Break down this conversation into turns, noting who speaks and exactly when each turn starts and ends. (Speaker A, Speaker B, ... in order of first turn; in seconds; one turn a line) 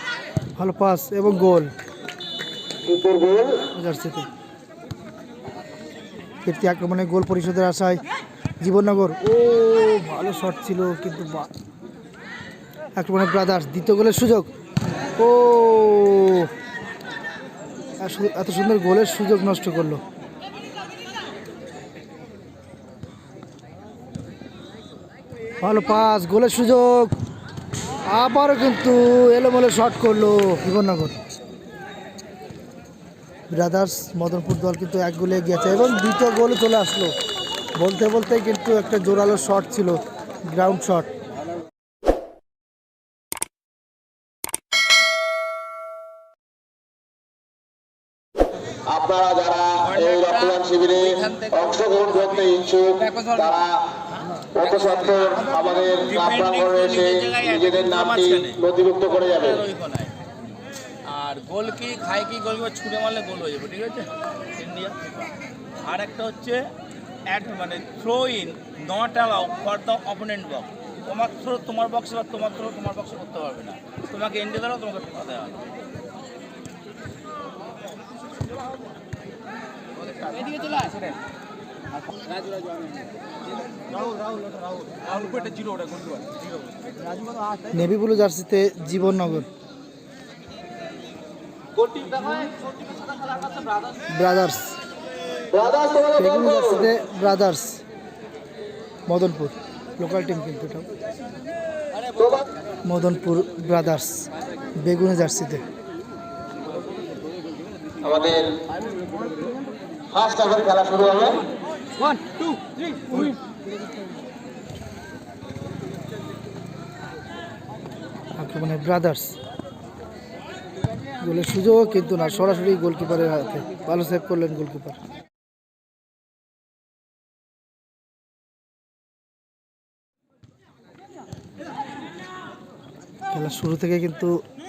Speaker A: 0.6-1.7
Speaker B: 2.9-3.7
Speaker A: 3.7-4.3
Speaker A: 6.4-8.0
Speaker A: 8.6-11.5
Speaker A: 12.9-14.5
Speaker A: 15.2-16.5
Speaker A: 18.0-20.0
Speaker A: 25.6-27.1
Speaker A: 28.1-31.2
Speaker A: 33.5-37.1
Speaker A: 37.8-41.1
Speaker B: 48.8-53.8
Speaker C: 49.8-52.4
Speaker C: 53.0-53.6
Speaker B: 54.5-59.6
Speaker C: 55.6-58.6
Speaker C: 59.2-60.1
Speaker C: 61.0-66.7
Speaker C: 67.3-75.7
Speaker C: 80.0-81.1
Speaker C: 85.3-85.7
Speaker A: 87.7-89.5
Speaker A: 94.1-94.8
Speaker B: 95.5-96.8
Speaker A: 96.1-97.8
Speaker A: 99.1-100.9
Speaker A: 102.8-105.6
Speaker B: 108.0-108.6
Speaker B: 110.1-111.4
Speaker A: 118.4-119.3
Speaker A: 121.2-125.0
Speaker A: 133.3-134.4